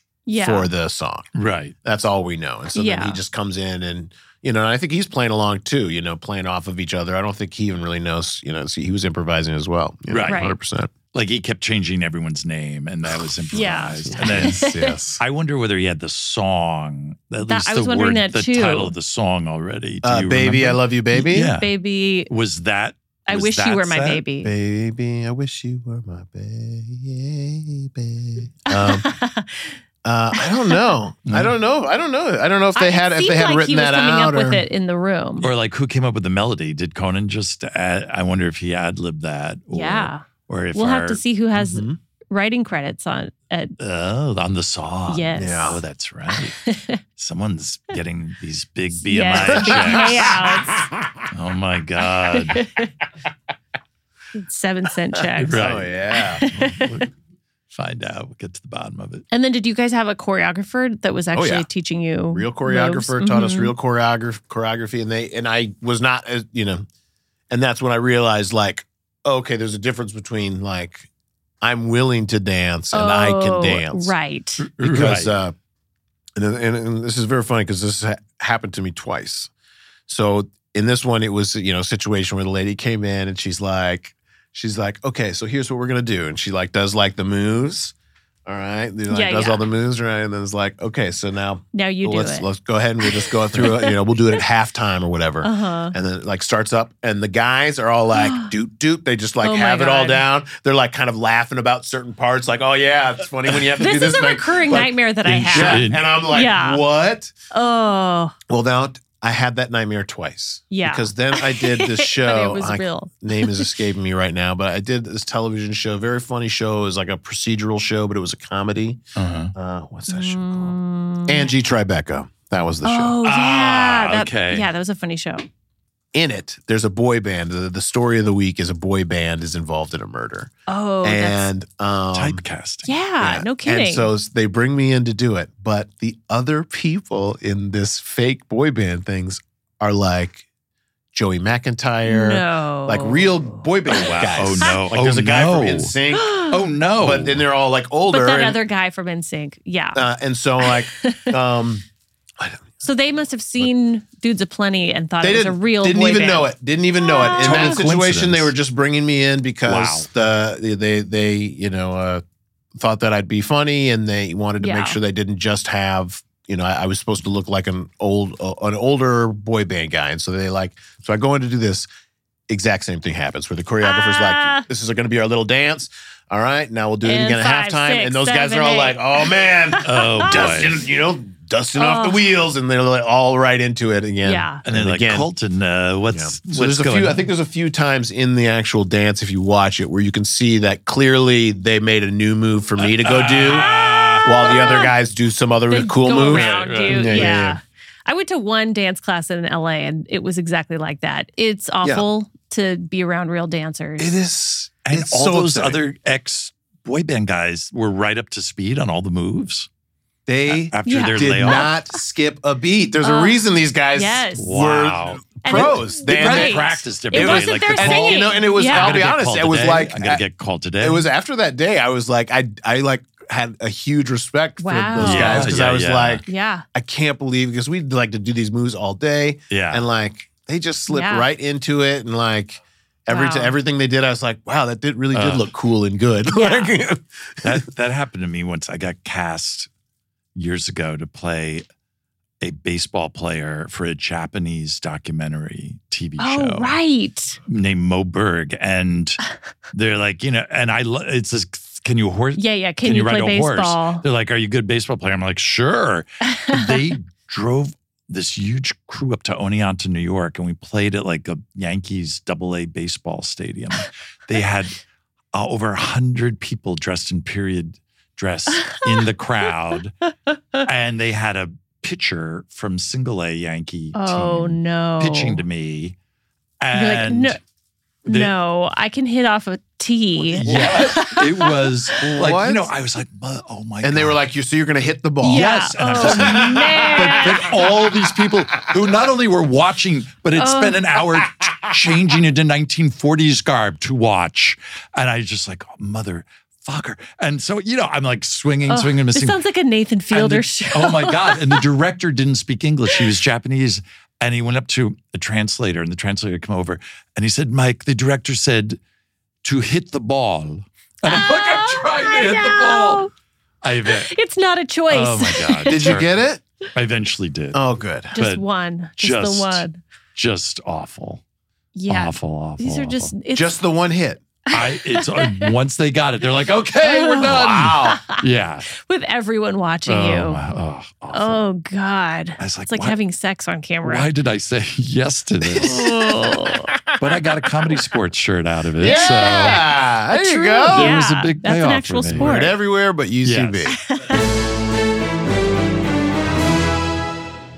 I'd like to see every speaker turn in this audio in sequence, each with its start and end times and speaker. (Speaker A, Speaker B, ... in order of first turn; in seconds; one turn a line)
Speaker A: 0.3-0.7
Speaker B: 0.3-1.3
Speaker C: 1.4-1.7
Speaker B: 1.8-10.9
Speaker A: 2.7-3.2
Speaker C: 10.1-10.4
Speaker A: 10.3-10.6
Speaker C: 11.1-21.7
Speaker A: 13.5-14.9
Speaker B: 14.1-15.2
Speaker A: 17.5-18.9
Speaker B: 20.0-21.5
Speaker A: 21.5-22.3
Speaker C: 22.3-24.2
Speaker A: 23.3-24.5
Speaker B: 24.4-29.1
Speaker A: 28.7-29.8
Speaker B: 30.0-34.6
Speaker A: 30.4-30.8
Speaker C: 31.3-31.5
Speaker A: 32.8-35.5
Speaker C: 35.4-41.2
Speaker A: 39.7-43.7
Speaker B: 41.6-42.0
Speaker C: 43.8-46.6
Speaker A: 45.1-45.7
Speaker B: 45.4-45.8
Speaker A: 46.6-47.0
Speaker C: 47.2-50.4
Speaker A: 49.0-50.8
Speaker B: 49.4-50.8
Speaker C: 51.3-52.6
Speaker A: 52.3-52.9
Speaker A: 54.4-55.6
Speaker C: 55.4-55.9
Speaker B: 55.6-56.5
Speaker A: 56.1-57.1
Speaker C: 56.5-57.1
Speaker C: 57.7-59.2
Speaker A: 59.3-63.7
Speaker B: 61.3-61.7
Speaker B: 62.3-66.8
Speaker B: 67.5-71.1
Speaker B: 71.6-74.2
Speaker A: 72.9-74.6
Speaker C: 74.6-75.3
Speaker B: 74.8-75.5
Speaker B: 76.4-79.5
Speaker B: 80.1-87.9
Speaker B: 88.5-107.3
Speaker A: 89.1-89.7
Speaker A: 91.7-92.5
Speaker A: 93.0-94.0
Speaker A: 95.4-96.0
Speaker A: 98.2-98.5
Speaker A: 99.4-100.2
Speaker A: 103.8-106.8
Speaker C: 105.3-106.1
Speaker A: 107.5-108.3
Speaker B: 108.5-119.0
Speaker A: 110.7-113.8
Speaker C: 119.2-119.5
Speaker B: 119.5-123.2
Speaker A: 120.1-121.5
Speaker A: 122.8-125.5
Speaker C: 123.2-124.7
Speaker B: 126.1-132.4
Speaker A: 130.7-131.5
Speaker C: 132.1-132.9
Speaker A: 132.8-134.1
Speaker B: 133.2-140.4
Speaker B: 141.1-146.4
Speaker A: 142.1-144.8
Speaker C: 143.9-145.9
Speaker A: 146.1-146.6
Speaker C: 146.5-147.4
Speaker B: 147.0-148.6
Speaker A: 148.1-150.1
Speaker B: 149.9-151.8
Speaker A: 150.6-151.3
Speaker B: 152.4-152.9
Speaker A: 152.8-157.8
Speaker B: 155.2-162.2
Speaker C: 157.3-158.5
Speaker C: 159.7-160.1
Speaker B: 162.8-171.9
Speaker A: 164.6-165.0
Speaker B: 172.5-185.3
Speaker A: 173.8-174.7
Speaker A: 177.0-180.2
Speaker C: 179.8-180.8
Speaker A: 181.8-182.2
Speaker A: 184.2-184.6
Speaker C: 184.7-187.3
Speaker B: 186.1-193.7
Speaker C: 192.8-194.8
Speaker B: 194.2-197.6
Speaker A: 195.7-204.2
Speaker C: 196.2-197.4
Speaker B: 204.0-205.8
Speaker C: 204.9-209.7
Speaker B: 210.3-220.2
Speaker C: 210.5-211.7
Speaker A: 210.8-211.7
Speaker A: 213.0-213.4
Speaker A: 213.9-214.5
Speaker C: 214.4-221.1
Speaker A: 215.4-219.1
Speaker B: 220.8-237.7
Speaker A: 224.6-225.5
Speaker C: 225.0-226.2
Speaker A: 226.3-226.7
Speaker C: 229.5-229.8
Speaker A: 230.9-231.3
Speaker A: 233.1-233.6
Speaker C: 235.1-235.5
Speaker A: 236.3-236.8
Speaker C: 237.4-239.7
Speaker C: 240.3-241.7
Speaker C: 242.4-246.8
Speaker A: 246.2-247.4
Speaker C: 247.5-249.2
Speaker C: 249.7-264.8
Speaker A: 252.4-254.0
Speaker A: 256.3-256.7
Speaker C: 265.3-269.9
Speaker A: 268.6-269.0
Speaker A: 270.3-270.6
Speaker C: 270.6-276.0
Speaker A: 273.9-275.4
Speaker C: 276.6-277.4
Speaker A: 276.7-277.4
Speaker C: 278.1-278.3
Speaker A: 278.1-281.5
Speaker B: 280.4-280.9
Speaker C: 280.4-284.2
Speaker B: 282.0-282.7
Speaker B: 283.8-287.3
Speaker A: 285.2-287.5
Speaker C: 285.2-299.4
Speaker A: 290.4-291.0
Speaker A: 298.7-301.6
Speaker C: 300.1-308.8
Speaker C: 309.4-313.1
Speaker A: 311.1-313.1
Speaker C: 313.6-314.1
Speaker A: 313.9-316.0
Speaker C: 314.9-316.1
Speaker B: 315.7-316.4
Speaker C: 316.8-317.6
Speaker B: 317.5-318.1
Speaker A: 318.1-319.8
Speaker C: 318.2-318.4
Speaker C: 319.0-321.2
Speaker A: 321.8-323.6
Speaker C: 321.9-323.1
Speaker B: 323.3-324.2
Speaker A: 324.5-325.5
Speaker C: 324.5-328.7
Speaker B: 326.8-328.1
Speaker A: 327.9-328.2
Speaker A: 328.8-330.4
Speaker C: 329.9-331.4
Speaker A: 331.1-334.1
Speaker C: 332.4-333.0
Speaker C: 333.8-335.8
Speaker B: 335.6-337.0
Speaker A: 335.7-336.7
Speaker C: 337.0-339.6
Speaker B: 338.8-341.0
Speaker A: 338.8-342.6
Speaker C: 340.7-342.3
Speaker B: 342.2-343.8
Speaker C: 343.2-343.7
Speaker A: 343.7-344.3